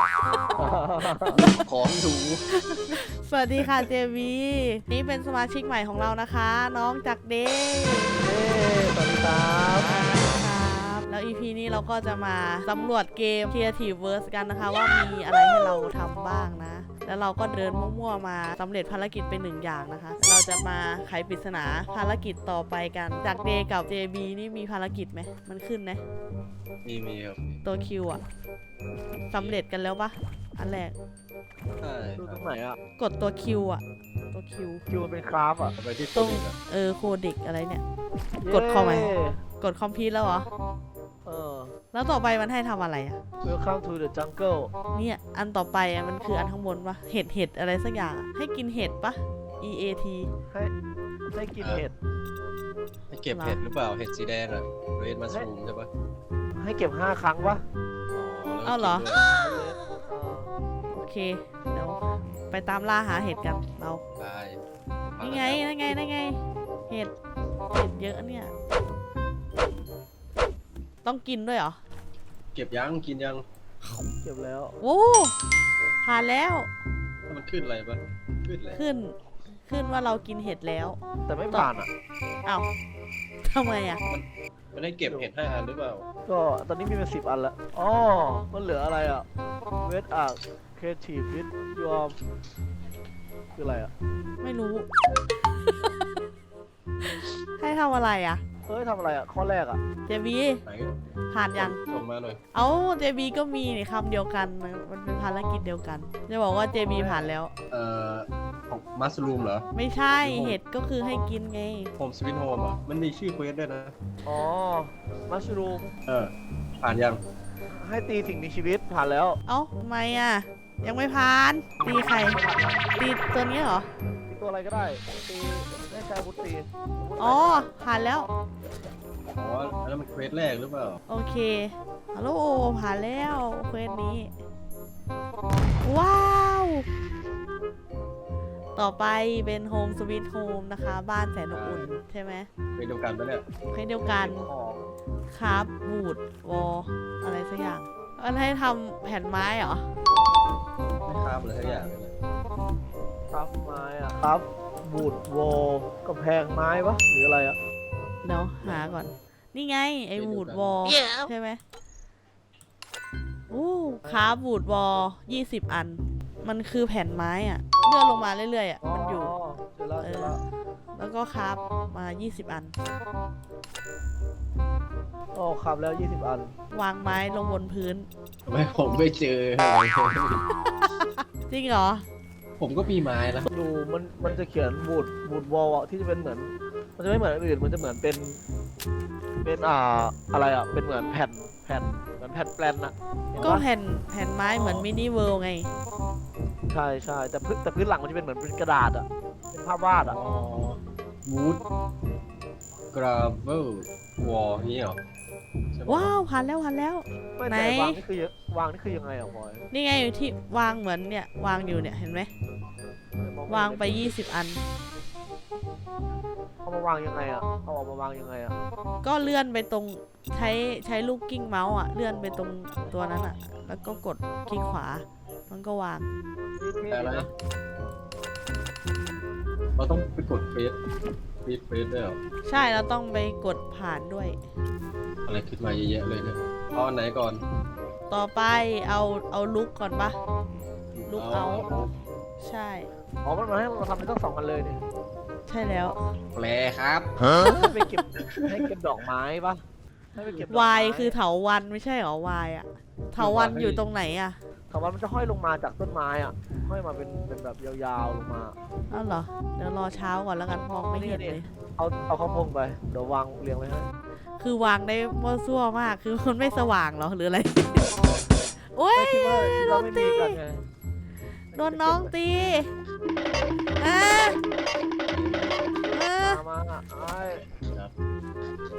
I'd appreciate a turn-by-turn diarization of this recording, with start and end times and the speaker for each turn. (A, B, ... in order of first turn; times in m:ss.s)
0:00.6-0:01.4 A
0:01.4-0:02.4 B
0:02.5-0:08.2 C
0:08.2-0:10.0 A
0:09.7-0:26.0 C
0:26.8-0:27.6 B
0:27.6-0:28.2 C
0:29.3-0:30.9 C
0:29.3-0:29.6 B
0:31.8-0:32.4 B
0:32.2-0:32.8 A
0:33.0-0:34.8 C
0:34.9-0:35.7 A
0:35.8-0:36.6 B
0:36.1-0:37.8 C
0:38.4-0:39.4 A
0:38.5-0:40.5 C
0:41.2-0:41.7 A
0:41.9-0:43.2 C
0:43.4-0:44.7 A
0:44.9-0:50.3 C
0:51.3-0:51.9 A
0:51.6-0:51.9 B
0:53.1-0:55.9 B
0:53.3-0:53.6 C
0:56.6-0:57.6 A
0:58.1-0:59.3 B
0:58.6-0:59.2 C
0:59.3-1:00.5 A
1:00.9-1:04.0 C
1:04.2-1:04.6 B
1:05.1-1:05.6 B
1:05.2-1:07.1 C
1:07.7-1:08.5 C
1:11.0-1:11.8 C
1:12.5-1:13.4 B
1:14.1-1:14.8 A
1:14.8-1:15.3 C
1:16.0-1:16.7 C
1:17.3-1:18.8 B
1:18.7-1:21.0 C
1:21.3-1:21.9 A
1:23.4-1:24.0 C
1:24.1-1:26.0 B
1:26.3-1:29.3 A
1:29.8-1:32.2 A
1:33.6-1:33.9 A
1:34.4-1:34.9 C
1:37.0-1:38.4 C
1:38.7-1:39.8 A
1:40.1-1:40.6 C
1:40.6-1:40.9 B
1:41.3-1:41.8 C
1:41.5-1:42.4 B
1:42.5-1:47.5 C
1:46.9-1:47.4 A
1:47.7-1:49.6 B
1:49.7-1:51.9 C
1:50.2-1:50.6 B
1:52.0-1:53.9 B
1:54.2-1:55.9 A
1:56.1-1:57.2 B
1:57.7-1:59.4 A
1:59.5-2:02.4 C
2:01.8-2:02.8 A
2:03.0-2:03.9 C
2:04.3-2:07.7 A
2:07.2-2:08.3 C
2:09.3-2:11.0 B
2:11.1-2:14.3 C
2:15.8-2:16.8 C
2:18.8-2:22.5 C
2:21.5-2:21.9 B
2:22.8-2:23.4 B
2:23.7-2:24.5 C
2:24.0-2:24.9 A
2:25.3-2:29.8 C
2:31.0-2:32.1 B
2:31.6-2:31.9 A
2:33.3-2:37.6 A
2:38.2-2:41.6 C
2:38.6-2:38.9 A
2:40.1-2:40.8 B
2:43.5-2:49.4 C
2:48.8-2:50.4 A
2:50.0-2:50.4 C
2:50.9-2:52.7 C
2:55.3-2:56.5 A
2:56.7-2:58.1 C
2:58.4-3:00.4 B
3:00.8-3:02.0 C
3:02.6-3:03.5 B
3:03.5-3:08.4 A
3:09.4-3:13.6 A
3:13.4-3:15.7 C
3:14.5-3:14.8 B
3:16.7-3:20.2 A
3:20.0-3:21.6 B
3:22.9-3:25.0 B
3:25.7-3:26.1 B
3:25.9-3:28.0 C
3:27.4-3:29.6 A
3:29.7-3:32.3 C
3:33.2-3:34.2 A
3:33.5-3:34.6 C
3:36.6-3:38.6 A
3:39.0-3:46.1 C
3:42.1-3:42.4 A
3:46.6-3:47.3 A
3:46.9-3:47.3 B
3:49.8-3:50.8 B
3:51.4-3:52.2 B
3:52.4-3:54.4 C
3:55.2-3:57.4 B
3:58.1-4:00.2 C
4:00.9-4:01.9 B
4:01.1-4:02.9 C
4:03.2-4:04.8 A
4:05.5-4:06.0 C
4:06.3-4:07.2 B
4:07.4-4:09.6 A
4:08.3-4:08.7 B
4:10.1-4:11.2 A
4:10.5-4:14.4 C
4:13.2-4:13.8 B
4:14.7-4:18.6 A
4:18.9-4:21.5 C
4:20.9-4:23.8 A
4:24.4-4:28.0 C
4:28.7-4:30.4 C
4:28.9-4:30.6 A
4:31.5-4:32.7 C
4:31.5-4:32.1 A
4:33.8-4:34.4 C
4:35.1-4:35.6 B
4:35.9-4:36.4 C
4:36.2-4:37.4 A
4:37.6-4:37.9 B